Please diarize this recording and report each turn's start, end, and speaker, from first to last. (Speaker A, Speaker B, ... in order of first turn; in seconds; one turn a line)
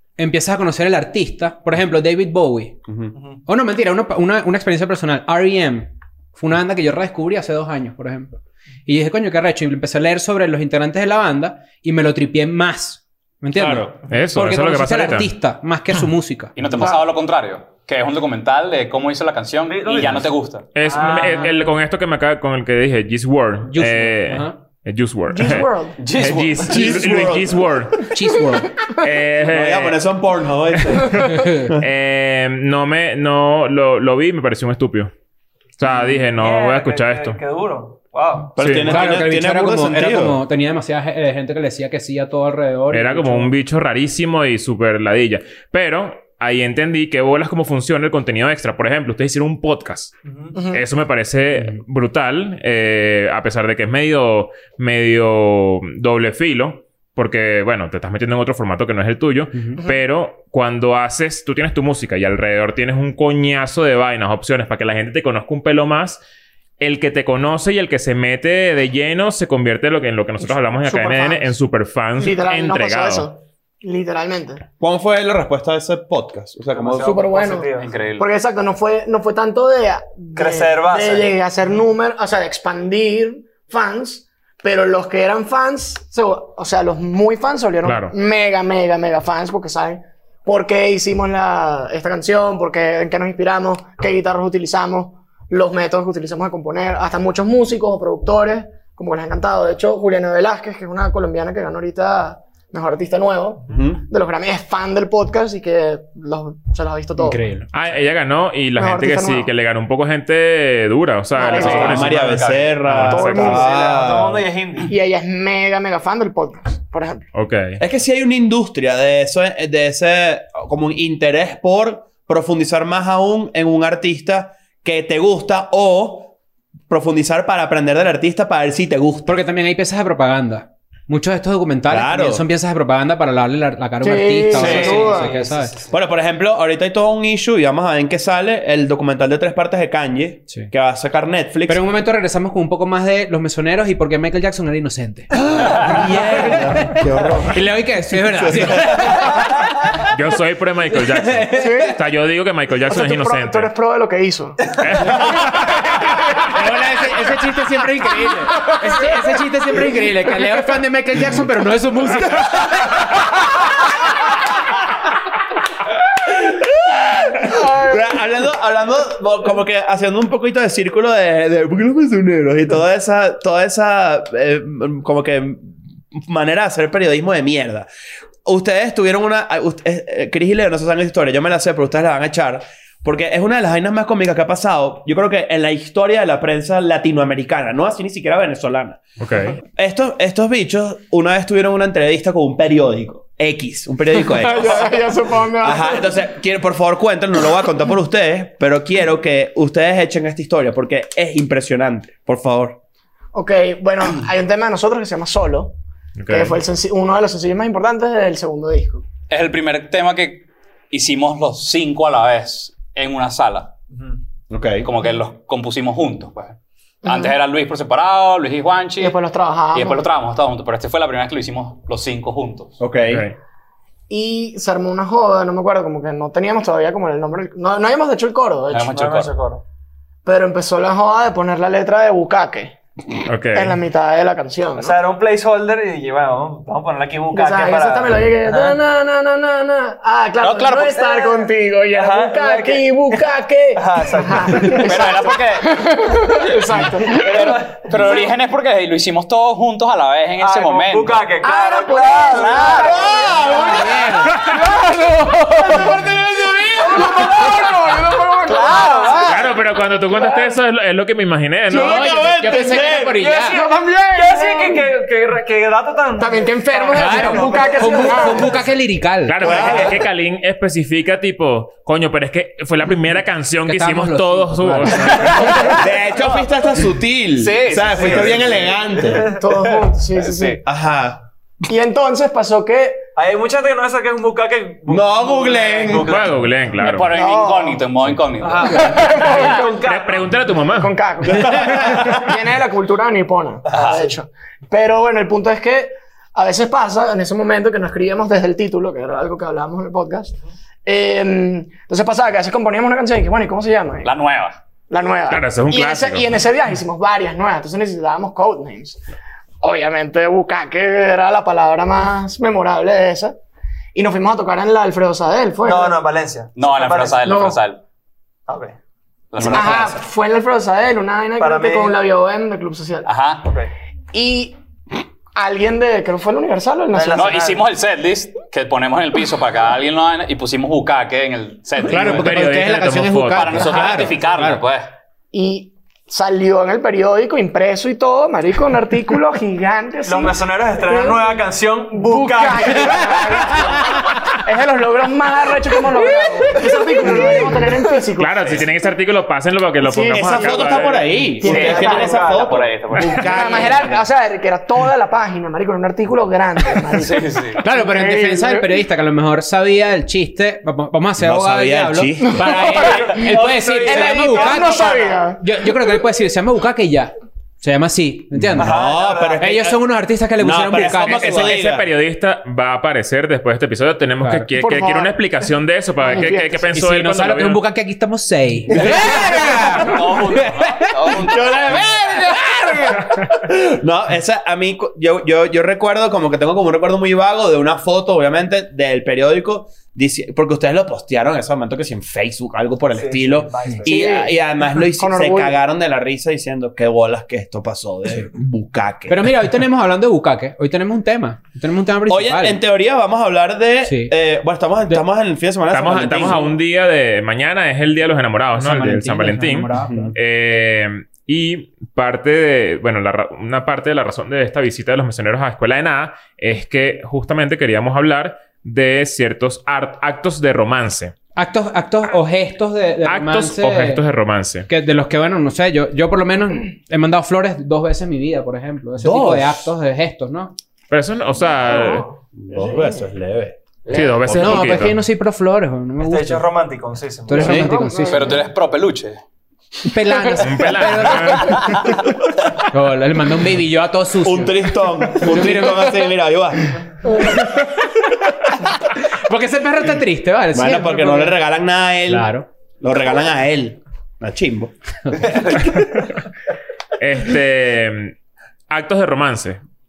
Speaker A: 0.2-2.8
Speaker B: 2.9-3.1
Speaker C: 3.1-3.4
Speaker A: 3.5-16.5
Speaker D: 13.7-15.3
Speaker E: 16.6-20.7
Speaker F: 16.8-17.0
Speaker C: 19.7-21.6
Speaker D: 20.7-28.1
Speaker A: 23.7-24.5
Speaker F: 25.3-26.0
Speaker E: 26.0-27.0
Speaker B: 26.6-27.7
Speaker A: 28.1-28.7
Speaker D: 28.9-30.0
Speaker B: 29.4-31.9
Speaker D: 30.9-35.1
Speaker A: 31.3-31.7
Speaker D: 35.8-37.4
Speaker C: 36.3-38.5
Speaker B: 38.5-40.4
Speaker D: 38.6-39.0
Speaker A: 38.9-43.5
Speaker D: 42.9-50.2
Speaker C: 50.2-50.5
Speaker F: 50.5-50.8
Speaker D: 50.7-66.2
Speaker A: 59.5-59.8
Speaker D: 66.8-73.3
Speaker F: 70.8-71.4
Speaker F: 72.2-74.6
Speaker B: 74.8-77.2
Speaker C: 76.7-77.9
Speaker F: 77.0-107.4
Speaker E: 77.8-78.3
Speaker C: 80.3-81.3
Speaker D: 87.8-88.1
Speaker B: 103.7-104.0
Speaker A: 107.2-107.7
Speaker D: 107.7-113.6
Speaker F: 108.8-109.5
Speaker F: 111.3-112.2
Speaker E: 111.5-112.8
Speaker B: 111.6-114.4
Speaker F: 113.0-113.7
Speaker C: 113.5-114.9
Speaker F: 114.8-117.2
Speaker D: 117.3-117.8
Speaker B: 117.8-126.3
Speaker B: 126.9-129.3
Speaker A: 129.2-135.7
Speaker B: 131.9-132.4
Speaker F: 134.0-135.3
Speaker B: 134.6-134.9
Speaker C: 134.6-135.9
Speaker E: 134.6-135.1
Speaker B: 135.9-141.8
Speaker A: 141.7-149.4
Speaker B: 145.5-149.4
Speaker D: 150.1-153.7
Speaker A: 151.2-151.7
Speaker F: 151.5-152.0
Speaker F: 152.9-154.6
Speaker D: 154.8-155.7
Speaker A: 156.5-162.9
Speaker F: 158.7-159.0
Speaker B: 166.2-177.9
Speaker B: 178.4-189.0
Speaker D: 189.2-189.6
Speaker B: 189.5-195.0
Speaker F: 194.4-196.1
Speaker B: 195.6-202.8
Speaker F: 203.3-205.7
Speaker D: 206.2-206.6
Speaker F: 206.3-209.0
Speaker E: 209.3-213.7
Speaker B: 214.5-214.9
Speaker E: 214.8-219.2
Speaker F: 217.0-217.4
Speaker F: 219.0-220.1
Speaker E: 219.7-222.8
Speaker B: 222.8-223.2
Speaker D: 223.1-223.3
Speaker F: 224.1-229.0
Speaker E: 228.7-229.3
Speaker C: 228.9-229.6
Speaker F: 230.2-232.7
Speaker D: 233.2-233.8
Speaker F: 233.5-235.0
Speaker C: 234.8-238.8
Speaker F: 237.3-247.4
Speaker E: 240.4-241.1
Speaker C: 241.0-243.2
Speaker C: 243.8-245.1
Speaker E: 244.8-245.8
Speaker C: 247.1-248.3
Speaker E: 247.3-251.3
Speaker C: 250.4-253.6
Speaker F: 251.4-254.9
Speaker E: 252.3-253.1
Speaker B: 252.8-254.2
Speaker A: 253.7-254.6
Speaker A: 255.3-256.4
Speaker F: 255.6-256.1
Speaker F: 256.7-259.4
Speaker E: 258.5-259.6
Speaker C: 258.9-259.1
Speaker D: 259.2-262.3
Speaker F: 260.1-260.5
Speaker B: 261.7-263.2
Speaker A: 261.7-263.6
Speaker F: 262.5-262.8
Speaker C: 263.1-268.7
Speaker F: 263.4-264.9
Speaker F: 266.2-268.6
Speaker A: 266.9-269.4
Speaker D: 269.2-275.8
Speaker B: 269.4-270.0
Speaker F: 269.5-269.9
Speaker C: 269.5-269.9
Speaker A: 273.6-275.8
Speaker F: 275.4-275.7
Speaker B: 275.8-279.4
Speaker E: 277.4-278.5
Speaker C: 277.8-279.7
Speaker F: 279.3-280.6
Speaker E: 280.2-280.6
Speaker B: 280.6-281.2
Speaker F: 281.6-283.0
Speaker C: 283.1-286.3
Speaker B: 284.9-286.2
Speaker D: 285.9-287.1
Speaker E: 286.8-289.5
Speaker F: 287.1-287.8
Speaker C: 288.4-290.3
Speaker F: 288.7-289.9
Speaker D: 289.8-291.9
Speaker F: 290.7-304.2
Speaker C: 293.7-294.0
Speaker E: 293.7-294.0
Speaker E: 304.0-304.6
Speaker F: 304.9-309.0
Speaker D: 305.3-306.3
Speaker F: 309.6-313.4
Speaker F: 313.9-316.0
Speaker C: 315.6-317.2
Speaker E: 316.5-317.8
Speaker F: 317.2-317.6
Speaker C: 318.5-318.8
Speaker E: 319.3-320.0
Speaker F: 319.4-323.1
Speaker C: 321.4-322.0
Speaker E: 323.0-323.5
Speaker C: 323.4-323.7
Speaker F: 324.1-324.6
Speaker F: 325.3-327.4
Speaker C: 326.9-327.7
Speaker E: 327.1-332.4
Speaker A: 331.8-334.6
Speaker D: 331.9-333.9
Speaker E: 333.3-334.9
Speaker F: 335.3-341.4
Speaker C: 340.0-343.8
Speaker F: 341.9-348.6
Speaker D: 348.2-351.1
Speaker F: 349.8-352.2
Speaker B: 350.1-354.0
Speaker C: 351.4-352.7
Speaker E: 351.4-353.7
Speaker F: 353.1-358.8
Speaker E: 356.9-357.6
Speaker A: 357.6-368.8
Speaker B: 361.2-362.4
Speaker F: 362.2-363.1
Speaker C: 362.6-365.2
Speaker F: 363.8-365.4
Speaker B: 368.3-369.8
Speaker C: 368.6-369.5
Speaker A: 369.4-371.5
Speaker B: 370.4-371.9
Speaker D: 370.9-377.6
Speaker A: 374.2-374.5
Speaker F: 374.6-375.2
Speaker F: 376.0-376.7
Speaker A: 376.7-381.1
Speaker B: 378.7-379.9
Speaker E: 379.5-382.0
Speaker B: 381.2-399.5
Speaker C: 392.9-394.2
Speaker F: 393.9-395.5
Speaker A: 399.1-402.6
Speaker B: 402.1-406.5
Speaker A: 403.8-404.1
Speaker D: 405.7-421.1
Speaker A: 408.6-410.1
Speaker B: 409.8-410.1
Speaker A: 421.4-424.0
Speaker D: 423.0-424.7
Speaker A: 424.7-430.5
Speaker B: 429.0-429.7
Speaker D: 430.9-432.1
Speaker F: 431.7-433.0
Speaker B: 432.3-433.6
Speaker F: 433.9-434.1
Speaker D: 433.9-435.0
Speaker B: 434.2-434.8
Speaker A: 434.3-436.5
Speaker C: 436.0-437.6
Speaker A: 437.3-438.4
Speaker F: 437.4-438.4
Speaker B: 437.4-437.7
Speaker E: 438.1-439.2
Speaker A: 439.9-441.7
Speaker D: 440.4-441.9
Speaker A: 442.7-446.0
Speaker B: 444.2-446.7
Speaker A: 449.2-451.4
Speaker B: 450.5-455.6
Speaker A: 452.1-452.4
Speaker D: 457.0-458.1
Speaker D: 458.7-459.6